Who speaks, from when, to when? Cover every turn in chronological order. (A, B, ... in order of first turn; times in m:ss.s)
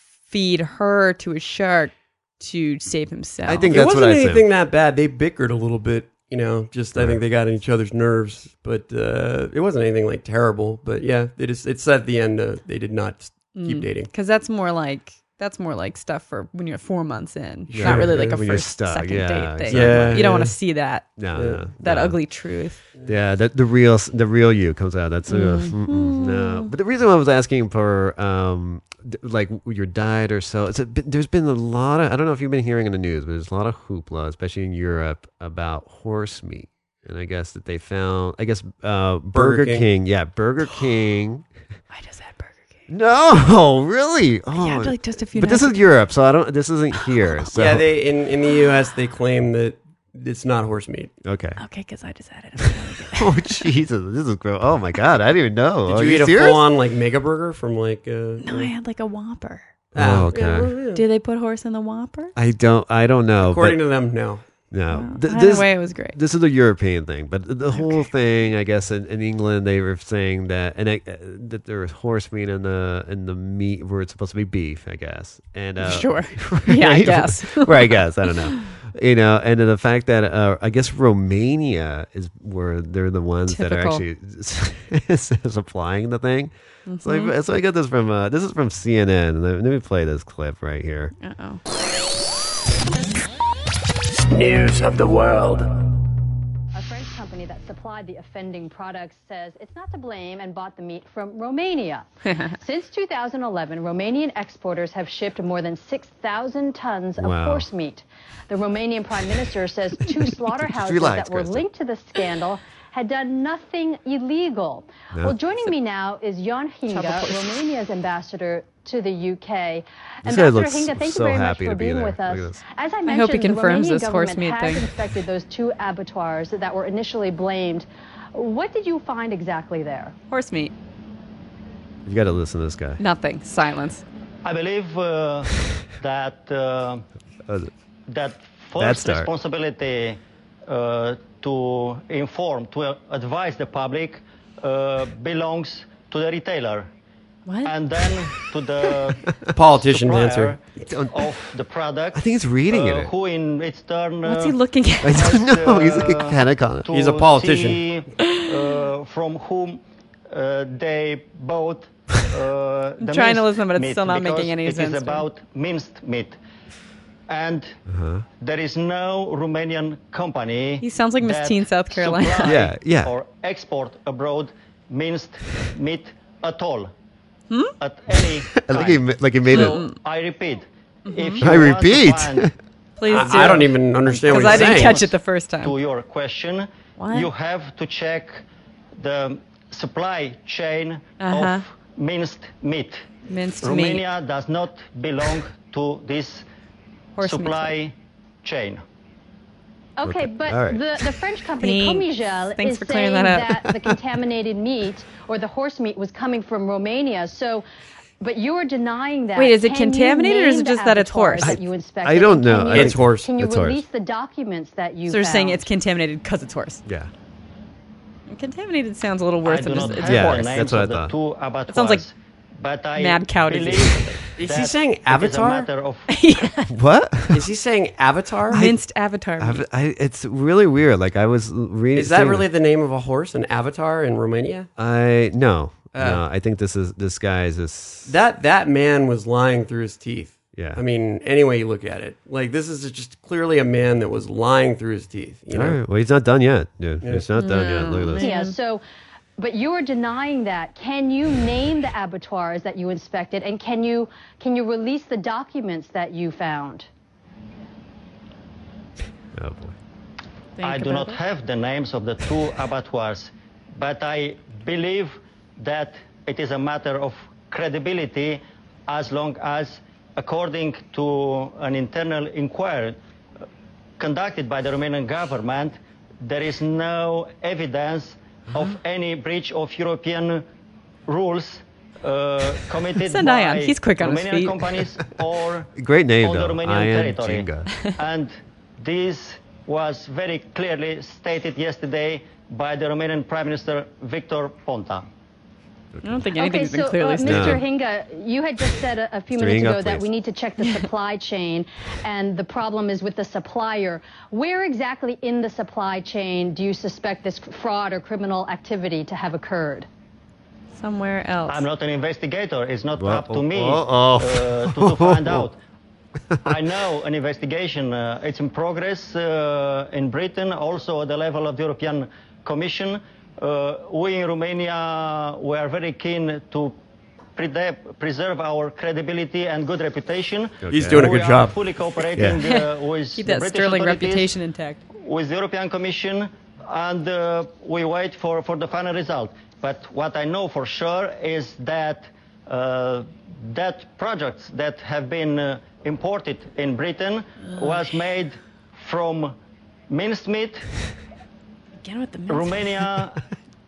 0:00.2-0:03.8 A
0:03.5-0:04.5 B
0:03.7-0:14.1 C
0:07.0-0:07.2 B
0:13.6-0:21.2 A
0:17.7-0:18.4 C
0:17.7-0:20.4 B
0:19.7-0:20.6 C
0:21.2-0:22.2 B
0:21.4-0:21.6 C
0:21.8-0:22.8 A
0:23.0-0:41.5 B
0:25.3-0:26.7 A
0:39.3-0:39.9 C
0:41.9-0:42.8 A
0:42.9-0:47.9 B
0:44.6-0:45.8 A
0:47.6-0:51.1 C
0:51.2-0:51.6 B
0:51.6-0:53.7 A
0:53.1-0:56.6 B
0:55.9-0:58.7 C
0:58.4-0:59.7 A
0:59.9-1:00.8 B
0:59.9-1:01.0 C
1:00.9-1:02.3 A
1:02.4-1:03.8 B
1:03.4-1:04.4 C
1:04.7-1:31.1 B
1:04.9-1:06.2 A
1:07.7-1:08.1 A
1:15.8-1:18.7 A
1:23.5-1:24.0 A
1:26.9-1:27.3 A
1:31.2-1:31.6 A
1:36.8-2:10.2 D
1:47.2-1:47.7 B
1:50.5-1:51.7 B
1:55.1-1:55.4 B
1:56.9-1:57.6 A
2:00.2-2:02.6 B
2:03.0-2:04.9 A
2:10.3-2:10.7 A
2:12.0-2:13.0 B
2:13.0-2:14.0 A
2:14.4-2:17.1 E
2:17.5-2:17.7 B
2:18.1-2:26.9 E
2:18.8-2:19.3 B
2:27.5-2:27.7 A
2:27.6-2:46.4 E
2:29.5-2:30.6 C
2:30.8-2:31.4 B
2:32.1-2:33.1 B
2:34.2-2:35.3 A
2:35.0-2:36.9 B
2:36.9-2:37.8 C
2:43.0-2:45.2 A
2:47.3-2:47.8 E
2:47.9-2:48.3 B
2:48.4-2:56.9 E
2:50.8-2:52.6 A
2:52.4-2:53.1 B
2:57.8-3:02.5 E
2:58.6-2:59.8 B
2:59.5-3:00.0 A
3:01.1-3:01.4 A
3:01.4-3:02.5 B
3:03.0-3:05.7 A
3:03.1-3:05.0 C
3:03.2-3:03.5 E
3:04.1-3:08.4 E
3:07.0-3:07.3 A
3:09.0-3:13.1 E
3:11.2-3:11.6 A
3:13.3-3:14.0 A
3:13.6-3:16.5 E
3:17.2-3:17.7 A
3:17.2-3:18.8 E
3:20.0-3:27.6 D
3:20.0-3:21.0 B
3:21.6-3:23.6 A
3:28.2-3:35.7 D
3:29.4-3:31.6 A
3:31.4-3:33.8 B
3:32.7-3:33.3 C
3:35.1-3:36.8 A
3:36.9-3:37.1 B
3:38.3-3:40.6 A
3:39.4-3:46.1 E
3:40.0-3:41.2 B
3:41.7-3:42.0 A
3:43.0-3:44.1 A
3:44.4-3:45.7 C
3:46.1-3:46.7 A
3:46.7-3:47.5 B
3:47.3-3:48.7 C
3:48.5-3:49.6 A
3:49.4-3:52.5 B
3:51.9-3:54.7 C
3:54.8-3:58.2 B
3:55.9-3:56.2 C
3:58.1-4:05.8 C
4:00.6-4:00.8 B
4:05.5-4:08.3 B
4:07.0-4:07.3 C
4:07.4-4:08.5 A
4:08.2-4:08.8 D
4:09.4-4:16.9 D
4:19.3-4:19.8 B
4:20.6-4:21.2 A
4:20.6-4:33.0 E
4:34.0-4:40.4 E
4:41.1-4:45.7 E
4:43.0-4:44.7 A
4:45.8-4:47.7 B
4:46.2-4:55.1 E
4:55.9-4:56.3 B
4:56.0-4:57.6 A
4:56.4-5:09.9 D
4:57.2-4:57.6 B
4:59.3-5:00.1 B
5:10.8-5:11.6 A
5:11.5-5:15.6 E
5:13.0-5:15.5 B
5:16.4-5:26.7 E
5:27.4-5:34.3 E
5:30.6-5:31.1 B
5:30.7-5:31.6 C
5:32.2-5:32.4 B
5:32.4-5:34.8 A
5:35.0-5:49.4 E
5:47.5-5:47.8 A
5:49.9-5:50.7 E
5:51.8-5:52.8 A
5:52.3-5:53.2 E